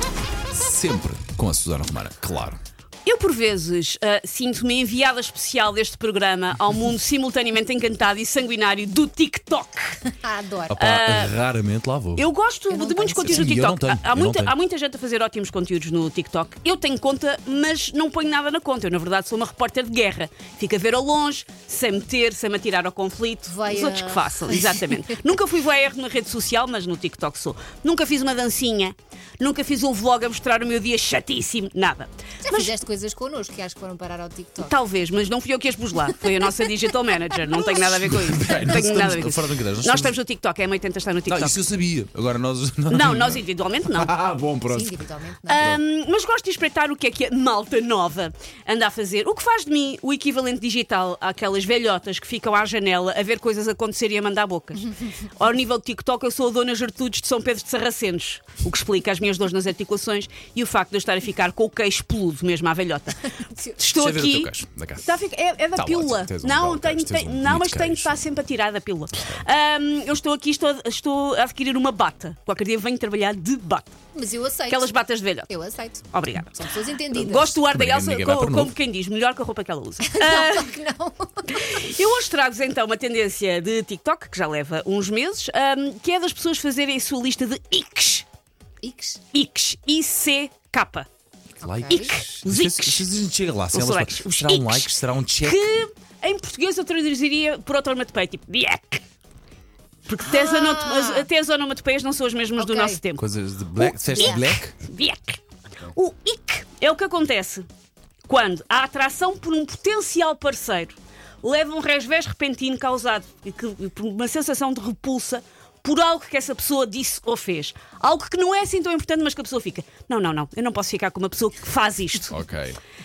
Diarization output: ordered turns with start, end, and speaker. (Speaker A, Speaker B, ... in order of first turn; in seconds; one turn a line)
Speaker A: 0.5-2.6
Speaker B: 3.0-10.1
Speaker C: 10.2-10.7
Speaker A: 10.7-12.3
Speaker B: 10.7-11.4
Speaker B: 12.2-32.7
Speaker C: 12.7-13.5
Speaker A: 13.2-14.5
Speaker C: 23.5-24.9
Speaker C: 32.4-34.8
Speaker B: 34.6-41.6
Speaker A: 37.5-40.2
Speaker A: 41.3-45.0
Speaker B: 42.9-44.1
Speaker C: 44.7-45.6
Speaker B: 45.5-73.9
Speaker A: 45.6-45.8
Speaker A: 63.9-65.2
Speaker A: 65.7-68.2
Speaker A: 69.1-69.4
Speaker C: 74.1-77.6
Speaker B: 74.7-75.5
Speaker B: 76.1-76.6
Speaker B: 77.1-80.7
Speaker A: 77.6-78.7
Speaker C: 80.0-81.8
Speaker B: 81.5-88.2
Speaker C: 88.8-89.2
Speaker B: 89.3-91.1
Speaker A: 91.6-95.7
Speaker C: 91.6-92.1
Speaker B: 91.9-93.0
Speaker B: 93.7-99.0
Speaker B: 100.1-103.2
Speaker C: 100.2-101.3
Speaker C: 102.6-103.0
Speaker A: 103.2-104.7
Speaker B: 103.8-107.7
Speaker C: 104.1-104.5
Speaker B: 108.3-122.4
Speaker A: 122.3-122.8